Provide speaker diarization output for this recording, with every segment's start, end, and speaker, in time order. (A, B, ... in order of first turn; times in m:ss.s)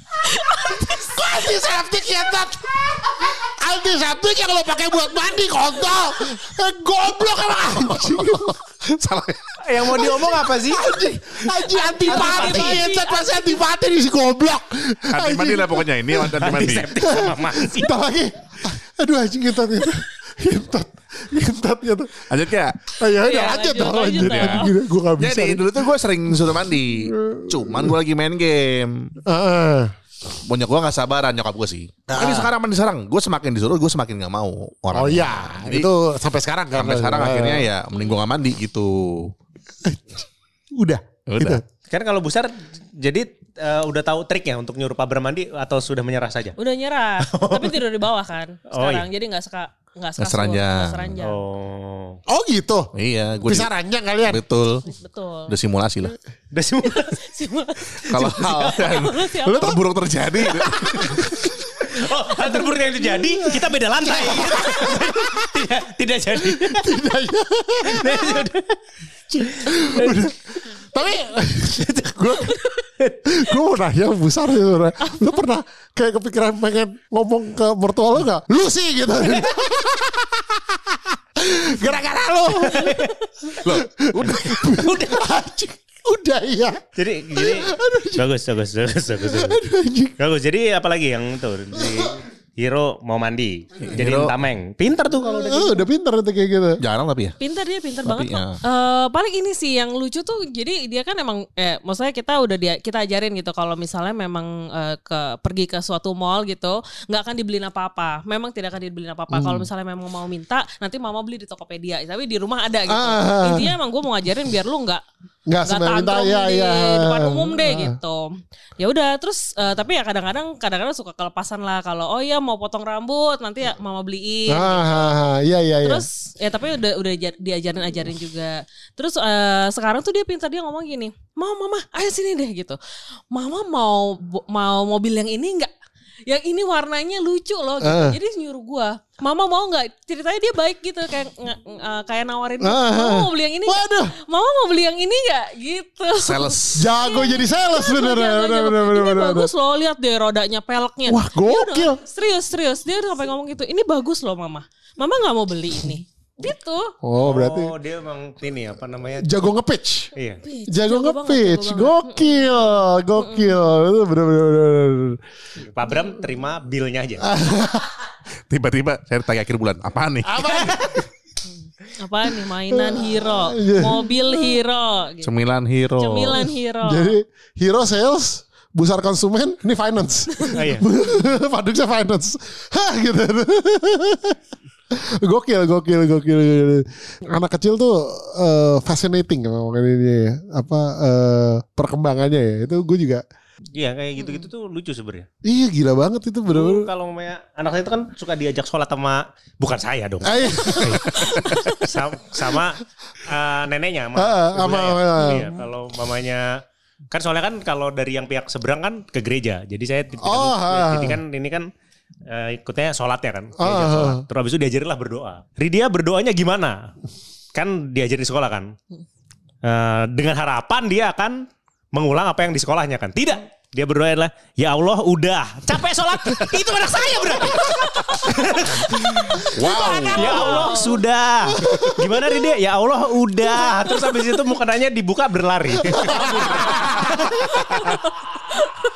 0:00.2-0:01.4 A
0:00.5-0:08.6 B
0:08.3-0:09.4 C
0:09.6-0:10.8 D
0:09.9-0:16.3 B
0:11.7-0:13.6 A
0:12.1-0:12.8 D
0:15.1-0:16.9 C
0:16.4-0:17.9 D
0:17.0-0:27.9 B
0:22.3-0:22.9 C
0:23.2-0:24.7 A
0:24.2-0:29.1 C
0:29.3-0:29.9 B
0:30.5-0:35.9 C
0:32.1-0:32.5 B
0:34.9-0:37.7 B
0:36.7-0:39.3 C
0:39.8-0:40.2 B
0:40.8-0:41.6 B
0:41.3-0:41.6 C
0:41.9-0:46.6 D
0:46.6-0:51.4 A
0:47.3-0:47.8 D
0:48.7-0:49.1 D
0:50.2-0:51.2 C
0:51.2-0:52.2 D
0:52.3-0:54.4 B
0:52.9-0:53.7 C
0:54.3-0:54.8 C
0:54.8-0:55.5 A
0:55.5-0:56.2 C
0:56.5-0:57.2 D
0:56.9-0:58.1 A
0:58.0-1:01.5 C
0:58.1-0:58.9 D
0:58.6-0:59.8 A
1:00.4-1:00.7 A
1:00.8-1:01.8 B
1:01.0-1:01.3 D
1:01.9-1:06.9 D
1:03.1-1:05.5 B
1:06.4-1:08.4 B
1:07.9-1:08.8 D
1:09.3-1:12.6 B
1:09.3-1:10.2 D
1:11.8-1:13.1 D
1:13.2-1:26.8 B
1:19.2-1:19.5 D
1:22.6-1:23.1 D
1:23.6-1:24.5 C
1:24.8-1:25.2 D
1:27.0-1:29.6 D
1:27.3-1:28.2 B
1:29.2-1:30.2 B
1:30.2-1:35.8 D
1:31.8-1:32.1 B
1:33.8-1:34.3 C
1:35.2-1:36.8 B
1:36.8-1:37.4 C
1:37.4-1:55.0 A
1:38.0-1:38.6 C
1:49.3-1:49.7 B
1:52.9-1:53.7 B
1:55.5-1:58.0 B
1:55.6-2:05.1 A
2:04.5-2:06.0 B
2:05.8-2:12.8 A
2:13.3-2:15.7 A
2:16.3-2:36.9 A
2:17.8-2:18.2 B
2:22.6-2:24.1 B
2:26.2-2:26.9 C
2:26.8-2:29.5 B
2:31.1-2:32.0 B
2:37.0-2:37.7 B
2:37.2-2:39.3 D
2:39.2-2:40.1 B
2:40.4-2:43.6 A
2:40.7-2:45.2 B
2:45.6-2:47.2 D
2:47.2-2:47.9 B
2:48.5-2:50.3 C
2:50.2-2:51.1 B
2:50.4-2:51.0 D
2:52.0-2:55.3 A
2:52.7-2:54.0 B
2:55.2-2:56.4 C
2:56.0-2:57.1 A
2:56.8-3:04.4 B
3:00.5-3:00.8 D
3:04.9-3:13.2 B
3:13.8-3:15.2 D
3:14.2-3:14.5 A
3:15.4-3:16.9 B
3:16.5-3:26.5 D
3:20.2-3:21.2 B
3:20.6-3:21.9 A
3:24.1-3:25.5 B
3:27.1-3:31.7 D
3:30.2-3:31.2 B
3:32.3-3:36.9 D
3:33.6-3:34.2 B
3:37.5-3:38.7 D
3:39.6-3:41.4 D
3:41.9-3:49.4 D
3:49.2-3:50.5 B
3:49.5-3:50.7 C
3:49.7-3:51.0 A
3:50.0-3:57.4 D
3:51.5-3:52.2 B
3:53.6-3:54.2 A
3:55.9-3:57.6 B
3:56.2-3:56.8 A
3:57.6-3:58.1 A